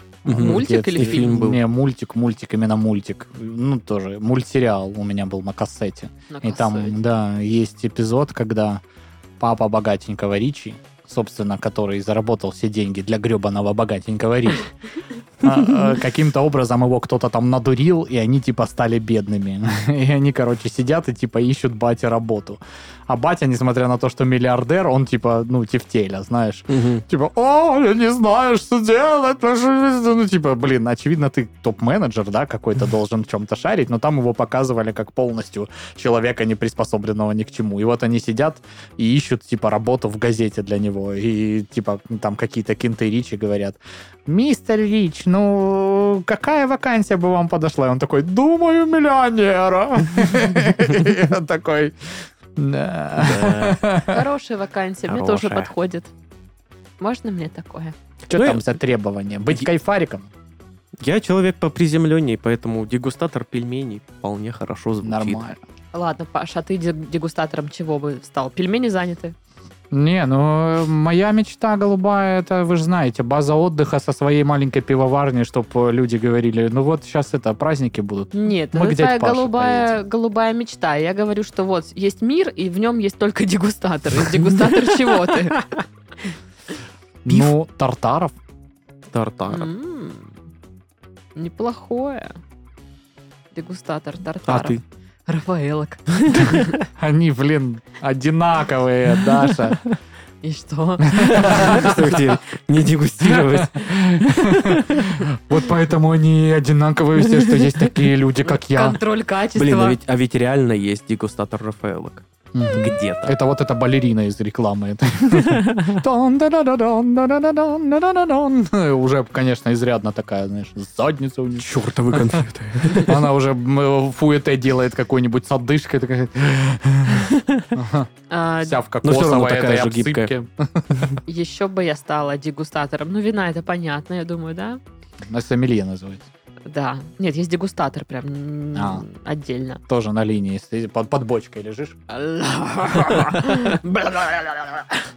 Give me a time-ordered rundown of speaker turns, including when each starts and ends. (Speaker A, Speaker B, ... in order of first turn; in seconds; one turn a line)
Speaker A: 0.2-1.6
Speaker B: 0.2-8.8
Speaker C: 0.3-1.4
Speaker C: 6.3-7.0
Speaker B: 9.4-14.7
Speaker B: 15.4-54.2
Speaker A: 26.7-27.0
Speaker A: 53.2-53.9
Speaker C: 54.1-56.1
Speaker A: 55.1-55.7
Speaker C: 57.0-58.0
Speaker B: 58.3-60.3
Speaker A: 58.3-58.7
Speaker A: 61.0-65.4
Speaker B: 65.0-65.6
Speaker C: 65.9-69.3
Speaker B: 69.9-80.0
Speaker C: 78.3-85.7
Speaker B: 87.2-88.3
Speaker A: 89.1-89.7
Speaker C: 89.5-90.3
Speaker C: 91.3-92.4
Speaker C: 93.5-96.7
Speaker A: 94.5-94.8
Speaker B: 96.8-99.8
Speaker A: 99.6-100.0
Speaker C: 100.4-102.0
Speaker B: 101.1-102.3
Speaker A: 101.2-105.2
Speaker B: 103.2-109.0
Speaker A: 107.3-107.8
Speaker C: 108.4-110.0
Speaker A: 109.5-113.3
Speaker B: 112.5-128.1
Speaker A: 115.3-116.0
Speaker A: 121.6-123.2
Speaker A: 127.3-127.7
Speaker C: 128.3-128.8
Speaker B: 128.6-131.1
Speaker A: 129.0-130.3
Speaker C: 131.3-134.8
Speaker B: 135.3-136.2
Speaker C: 136.7-139.8
Speaker B: 138.8-139.0
Speaker B: 139.9-142.0
Speaker C: 142.1-145.0